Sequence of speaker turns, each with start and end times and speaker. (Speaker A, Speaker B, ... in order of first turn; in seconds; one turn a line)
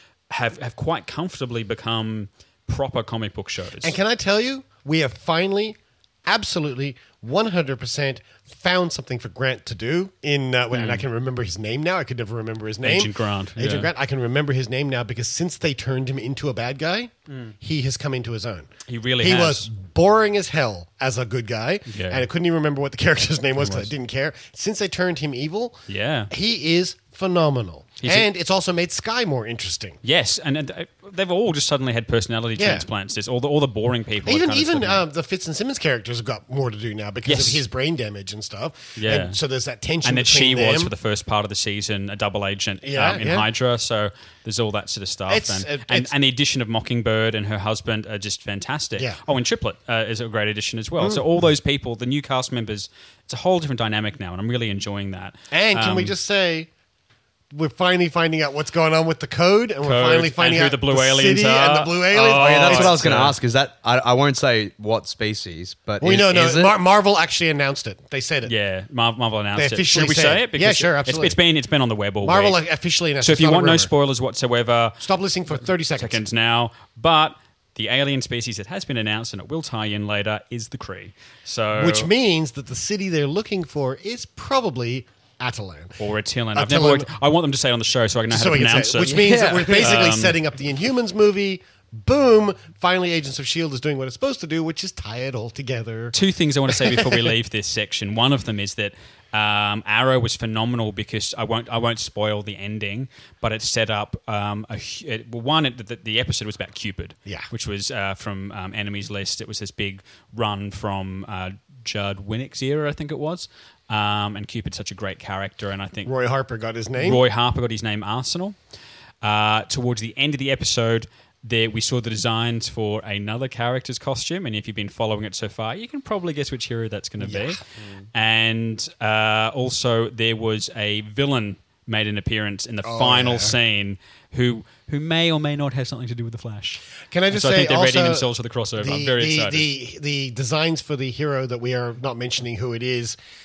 Speaker A: 0.3-4.0
Speaker B: 3.8-30.0
Speaker A: 10.7-11.0
Speaker A: 12.8-13.9
Speaker A: 18.9-19.7
Speaker A: 21.9-22.2
Speaker A: 23.6-23.9
Speaker A: 25.9-26.3
Speaker A: 28.0-28.3
Speaker A: 30.0-35.0
Speaker B: 32.6-32.9
Speaker B: 34.2-40.9
Speaker A: 37.2-37.6
Speaker A: 39.0-39.4
Speaker A: 40.0-56.1
Speaker B: 42.8-43.5
Speaker B: 45.3-46.1
Speaker B: 51.0-51.2
Speaker B: 55.5-56.7
Speaker B: 57.5-63.3
Speaker A: 59.8-63.3
Speaker C: 62.3-66.8
Speaker B: 66.0-68.5
Speaker A: 68.5-72.6
Speaker B: 69.5-71.4
Speaker B: 72.2-73.9
Speaker A: 73.2-75.0
Speaker B: 75.0-76.2
Speaker A: 76.0-82.1
Speaker B: 81.7-86.0
Speaker A: 86.0-90.3
Speaker B: 86.5-87.1
Speaker B: 88.3-96.1
Speaker C: 89.1-89.9
Speaker A: 96.1-116.1
Speaker B: 96.7-97.3
Speaker B: 116.0-117.2
Speaker A: 117.0-118.5
Speaker A: 119.2-127.6
Speaker B: 127.2-127.6
Speaker C: 127.8-128.1
Speaker A: 128.1-139.7
Speaker B: 132.8-133.6
Speaker B: 137.1-143.2